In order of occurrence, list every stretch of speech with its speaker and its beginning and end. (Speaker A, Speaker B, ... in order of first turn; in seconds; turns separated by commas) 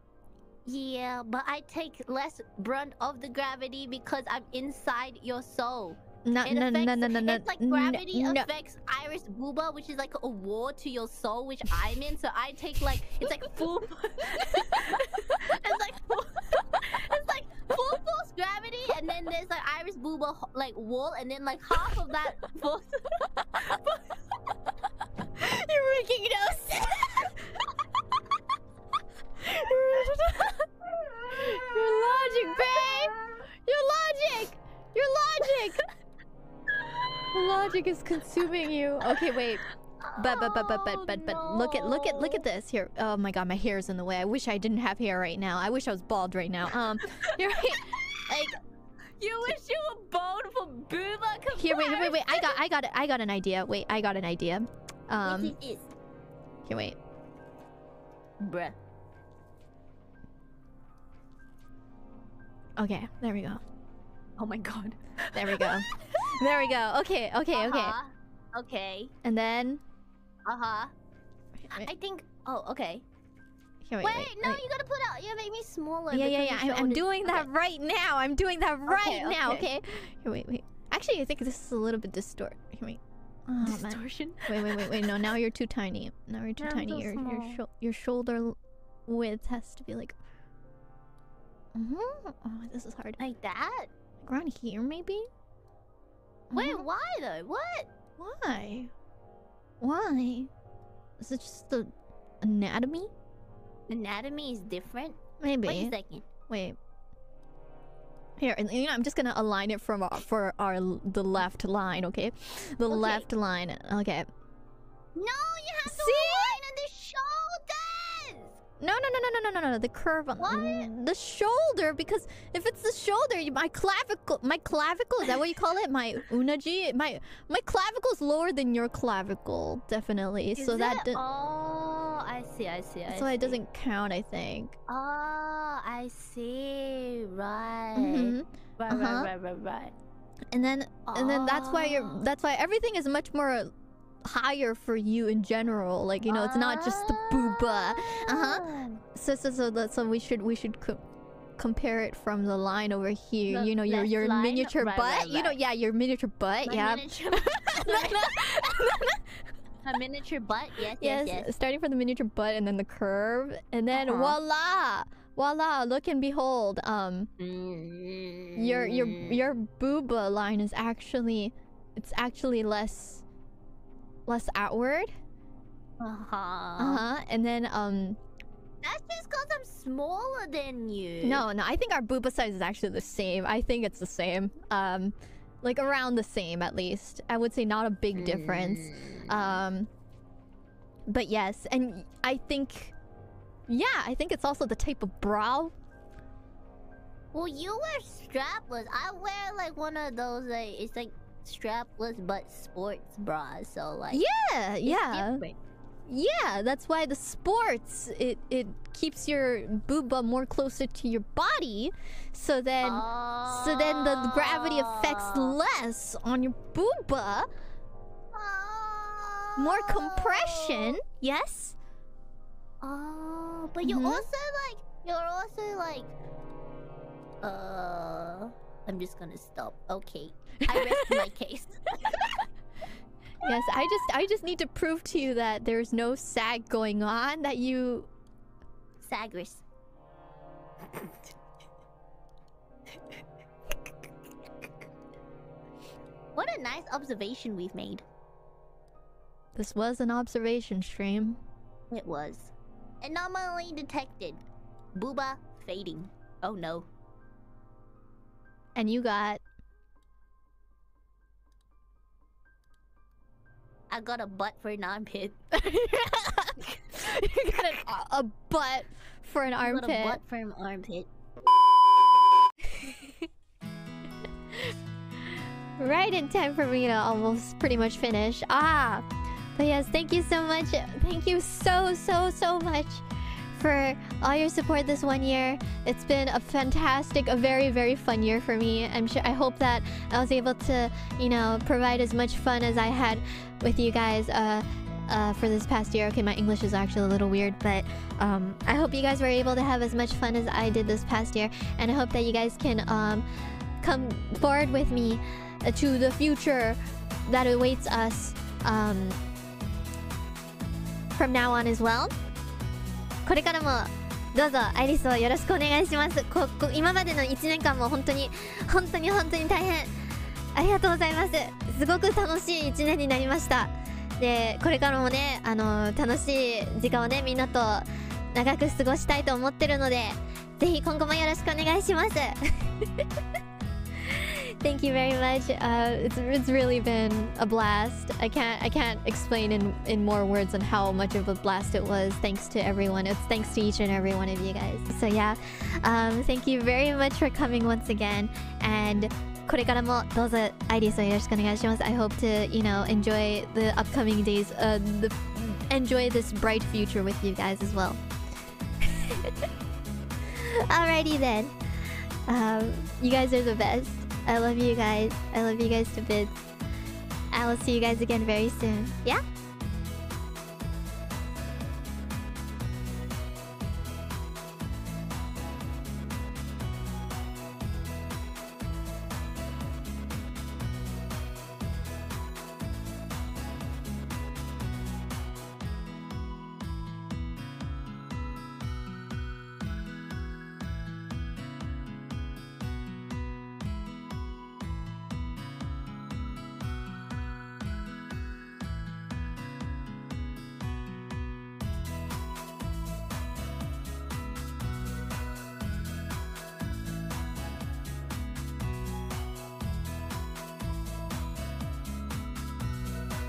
Speaker A: 0.7-23.8, Speaker B: 6.2-8.5, Speaker B: 25.4-27.3, Speaker B: 29.4-30.6, Speaker A: 30.8-33.4, Speaker B: 31.4-33.1, Speaker B: 33.6-35.8, Speaker B: 37.3-39.6, Speaker A: 40.0-42.4, Speaker B: 40.1-48.5, Speaker A: 49.2-52.6, Speaker B: 51.5-55.5, Speaker A: 55.2-55.9, Speaker B: 56.6-57.0, Speaker A: 58.4-58.7, Speaker B: 62.8-63.6, Speaker A: 64.4-65.7, Speaker B: 65.3-67.9, Speaker A: 67.5-69.1, Speaker B: 69.2-69.8, Speaker A: 70.5-70.9, Speaker A: 71.8-73.0, Speaker B: 73.8-74.6, Speaker A: 74.0-77.5, Speaker B: 76.1-88.5, Speaker A: 78.9-79.7, Speaker A: 83.6-85.2, Speaker A: 86.6-87.6, Speaker B: 89.1-90.2, Speaker B: 91.7-93.2, Speaker A: 93.2-93.9, Speaker B: 94.2-95.3, Speaker B: 96.5-96.8, Speaker A: 96.5-97.9, Speaker B: 98.2-98.9, Speaker B: 99.8-100.5, Speaker B: 101.2-101.9, Speaker B: 102.4-103.1, Speaker A: 103.9-106.3, Speaker B: 105.4-105.9, Speaker B: 106.5-106.8, Speaker B: 108.4-114.3, Speaker A: 112.9-113.3, Speaker A: 115.1-118.6, Speaker B: 115.9-116.6, Speaker B: 118.8-131.2, Speaker A: 120.4-120.9, Speaker A: 130.6-133.6, Speaker B: 133.1-134.7, Speaker A: 134.9-139.9, Speaker B: 137.9-139.3, Speaker B: 140.5-143.7, Speaker A: 141.1-142.2, Speaker B: 144.2-151.0, Speaker A: 146.3-149.0, Speaker B: 151.6-159.3, Speaker A: 153.5-155.6, Speaker A: 156.7-158.7, Speaker A: 159.8-161.5, Speaker B: 161.0-167.3, Speaker A: 163.9-164.4, Speaker A: 167.4-169.4, Speaker B: 168.6-173.2, Speaker B: 174.2-175.1, Speaker A: 176.0-177.0, Speaker B: 176.8-178.2, Speaker A: 178.8-181.4, Speaker B: 181.2-189.9, Speaker A: 188.1-189.3, Speaker B: 191.1-192.9, Speaker B: 193.7-195.7, Speaker A: 197.3-204.2, Speaker B: 204.1-205.4, Speaker A: 204.8-205.6, Speaker B: 206.1-217.5, Speaker A: 212.8-215.6, Speaker A: 218.3-221.0, Speaker B: 219.6-221.8, Speaker A: 222.8-226.1, Speaker B: 223.8-224.2, Speaker A: 227.4-232.3, Speaker B: 230.8-231.1, Speaker B: 233.4-238.1, Speaker A: 239.0-239.6, Speaker A: 246.3-248.0, Speaker B: 249.6-251.4, Speaker A: 251.9-254.4, Speaker A: 254.9-256.9, Speaker B: 258.8-259.4, Speaker A: 263.9-265.4, Speaker B: 265.5-270.2, Speaker A: 269.6-271.1, Speaker B: 275.8-303.2, Speaker B: 303.8-309.2, Speaker B: 311.1-312.1, Speaker B: 313.2-319.9, Speaker B: 320.5-333.0, Speaker B: 334.1-358.0, Speaker B: 358.8-359.3, Speaker B: 360.3-366.4, Speaker B: 367.3-369.2